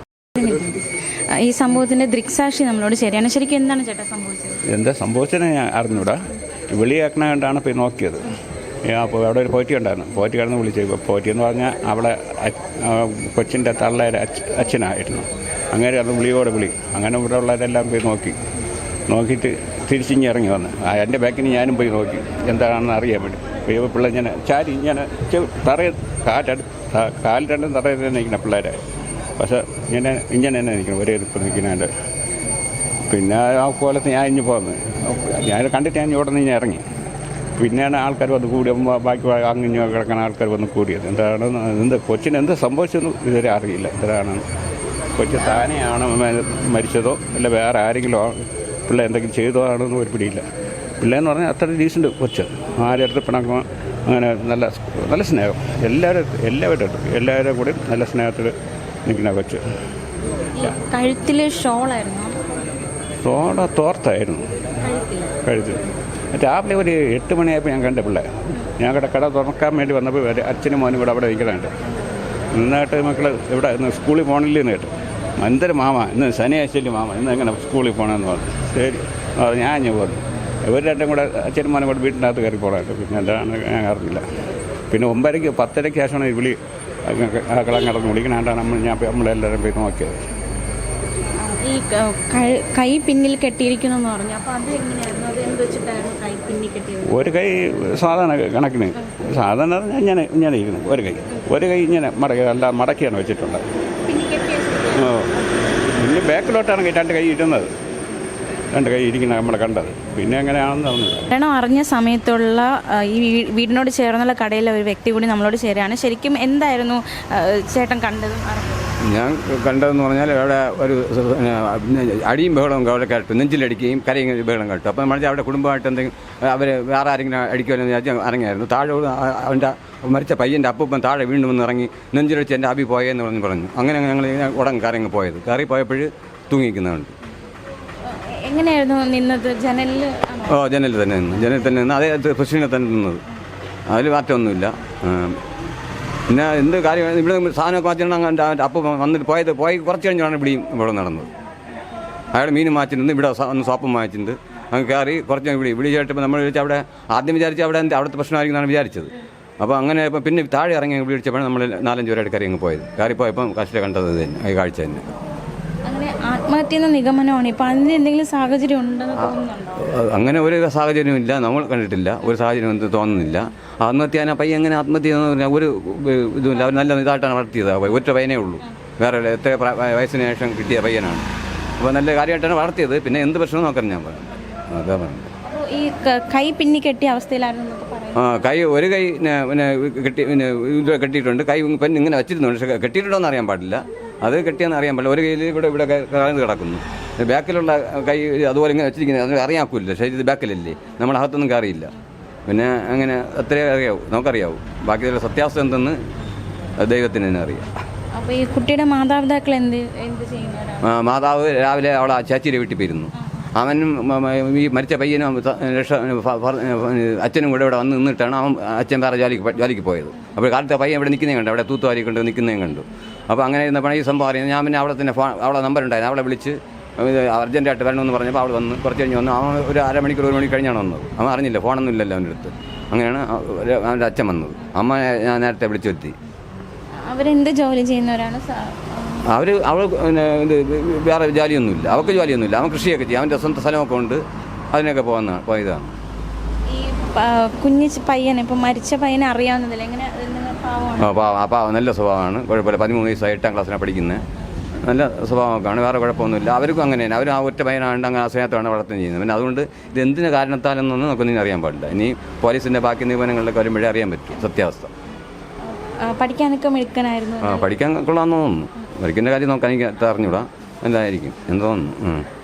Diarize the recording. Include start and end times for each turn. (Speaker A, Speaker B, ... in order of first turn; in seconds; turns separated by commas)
Speaker A: 0.3-4.6, Speaker B: 4.7-8.3, Speaker B: 8.9-18.4, Speaker B: 19.1-28.8, Speaker B: 29.4-31.9, Speaker B: 33.1-36.8, Speaker B: 37.6-44.4, Speaker B: 45.1-50.4, Speaker B: 51.0-58.5, Speaker B: 59.0-59.6, Speaker A: 60.6-62.4, Speaker B: 63.2-64.5, Speaker A: 64.8-65.3, Speaker B: 65.4-71.7, Speaker B: 72.5-84.2, Speaker B: 84.9-90.2, Speaker A: 91.4-97.1, Speaker B: 97.1-103.6, Speaker A: 104.1-105.1, Speaker B: 104.9-105.3, Speaker B: 105.9-107.7, Speaker B: 108.7-111.3, Speaker A: 111.3-118.9, Speaker C: 119.0-137.1, Speaker A: 138.1-140.6, Speaker C: 140.5-143.2, Speaker C: 143.9-145.4, Speaker C: 146.3-151.3, Speaker C: 152.3-165.1, Speaker A: 165.8-169.9, Speaker C: 169.2-181.2, Speaker C: 181.8-185.3, Speaker A: 185.4-188.5, Speaker C: 188.2-201.9, Speaker C: 202.5-206.0, Speaker C: 206.8-207.6, Speaker A: 208.1-210.9, Speaker C: 210.8-236.2, Speaker A: 237.0-239.3, Speaker C: 239.3-246.0, Speaker A: 246.7-251.2, Speaker C: 251.0-254.2, Speaker C: 254.8-264.9, Speaker A: 265.7-267.7, Speaker C: 267.4-272.2